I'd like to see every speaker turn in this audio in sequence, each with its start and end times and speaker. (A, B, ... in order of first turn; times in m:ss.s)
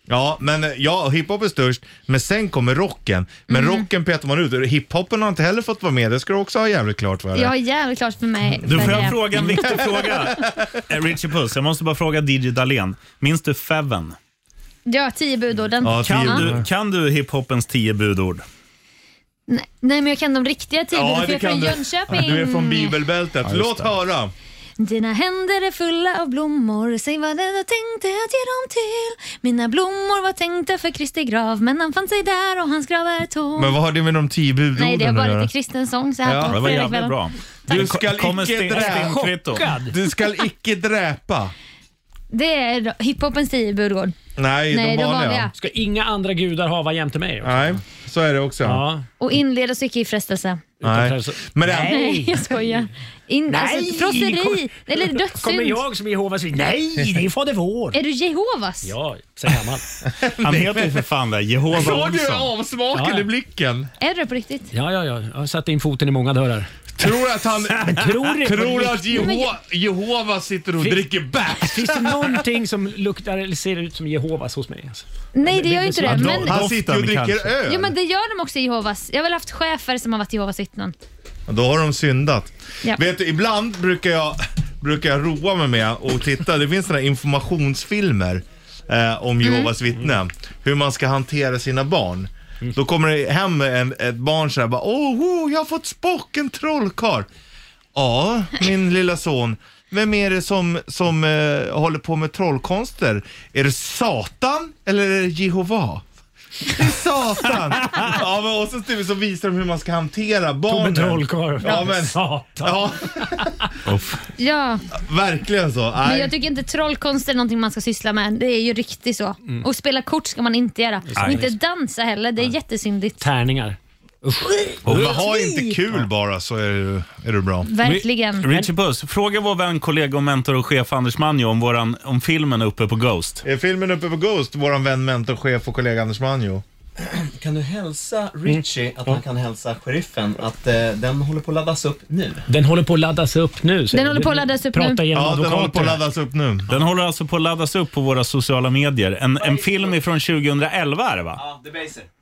0:00.1-0:07.5 A
0:03.5-0:03.9 B
0:07.3-0:09.6 B
0:08.6-0:10.5 A
0:08.7-0:14.2 C
0:14.9-0:16.5 B
0:15.8-0:16.7 A
0:16.0-0:18.4 C
0:19.5-0:23.0 B
0:20.9-0:24.3 A
0:24.8-0:33.8 B
0:33.6-0:35.5 A
0:34.8-0:37.2 B
0:36.2-0:36.6 A
0:36.4-0:39.7 C
0:37.7-0:41.5 A
0:38.7-0:40.0 D
0:42.3-0:44.2 B
0:44.4-0:45.5 A
0:44.7-0:45.5 B
0:45.6-0:47.8 D
0:47.4-0:48.8 A
0:48.6-0:49.0 D
0:49.2-0:50.6 B
0:50.8-0:52.0 A
0:50.8-0:52.6 D
0:51.8-0:55.8 B
0:53.5-0:58.0 D
0:57.9-0:58.9 B
0:58.8-0:59.9 D
1:00.1-1:01.0 A
1:00.4-1:02.5 C
1:01.7-1:03.9 A
1:02.9-1:03.3 D
1:04.0-1:04.7 B
1:04.7-1:06.7 D
1:07.0-1:12.4 A
1:07.8-1:09.4 D
1:09.2-1:09.5 B
1:10.8-1:16.5 D
1:15.3-1:16.6 B
1:16.0-1:17.5 C
1:16.1-1:17.9 A
1:17.6-1:20.9 B
1:21.5-1:37.3 A
1:29.4-1:29.7 B
1:38.0-1:46.1 A
1:46.7-1:53.5 A
1:50.7-1:53.8 D
1:53.9-1:54.1 C
1:54.4-1:54.8 B
1:54.9-1:56.3 A
1:56.0-2:03.2 B
2:01.1-2:01.6 D
2:01.2-2:01.5 C
2:03.2-2:06.0 D
2:04.8-2:07.7 A
2:07.6-2:08.5 B
2:07.8-2:08.7 D
2:08.4-2:13.4 C
2:13.4-2:16.6 A
2:17.0-2:22.4 E
2:18.5-2:19.2 D
2:22.5-2:26.0 D
2:23.9-2:25.1 B
2:25.1-2:26.7 A
2:26.7-2:31.4 C
2:29.5-2:29.9 E
2:31.4-2:32.1 E